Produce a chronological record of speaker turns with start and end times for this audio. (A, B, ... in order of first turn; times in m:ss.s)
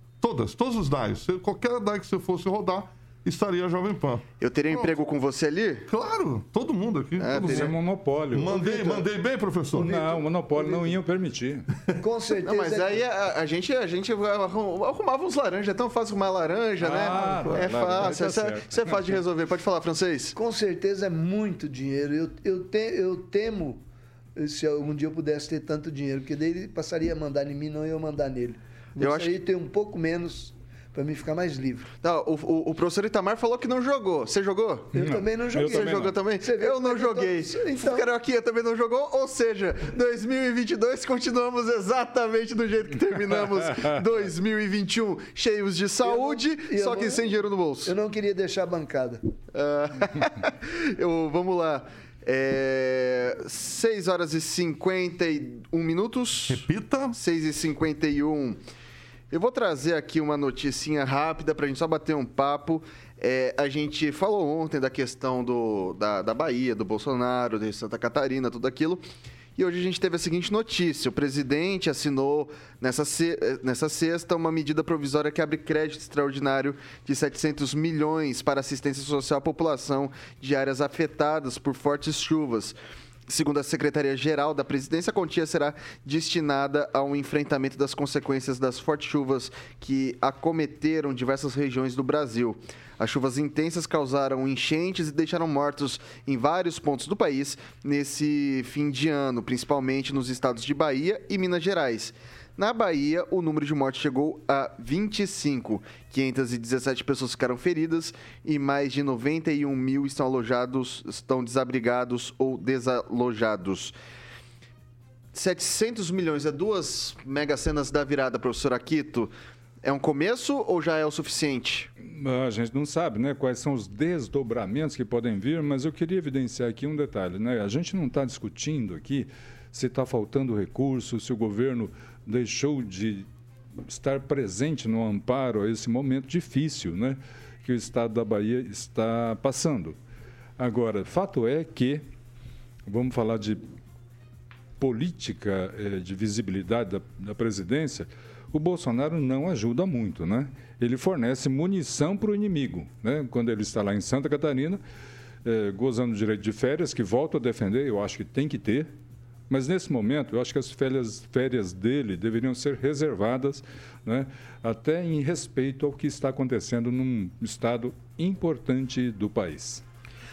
0:00.2-0:04.2 A
0:04.4-0:05.8 B
0:05.9-0:07.7 A
0:07.2-0:07.7 B
0:07.4-0:08.8 C
0:08.3-0:10.0 A
0:08.5-0:09.0 D
0:09.7-0:11.6 C
0:09.8-0:10.9 D
0:12.0-0:13.0 D
0:12.4-0:20.3 B
0:16.8-0:19.2 C
0:17.1-0:17.6 D
0:20.3-0:23.8 D
0:24.4-0:31.9 D
0:29.0-0:29.3 B
0:32.0-0:35.0 B
0:34.9-0:38.1 D
0:34.9-0:36.2 C
0:35.5-0:47.9 B
0:46.0-0:47.3 D
0:47.8-0:49.2 D
0:49.5-0:58.6 B
0:56.5-0:57.2 A
0:59.3-1:09.0 B
1:09.6-1:22.8 B
1:23.3-1:53.9 B
1:55.3-1:59.3 B
1:59.8-2:01.9 B
2:02.0-2:13.2 C
2:13.9-2:20.0 C
2:20.6-2:22.0 C
2:22.8-2:23.6 C
2:24.8-2:34.8 C
2:35.4-2:38.9 C
2:39.5-2:49.8 C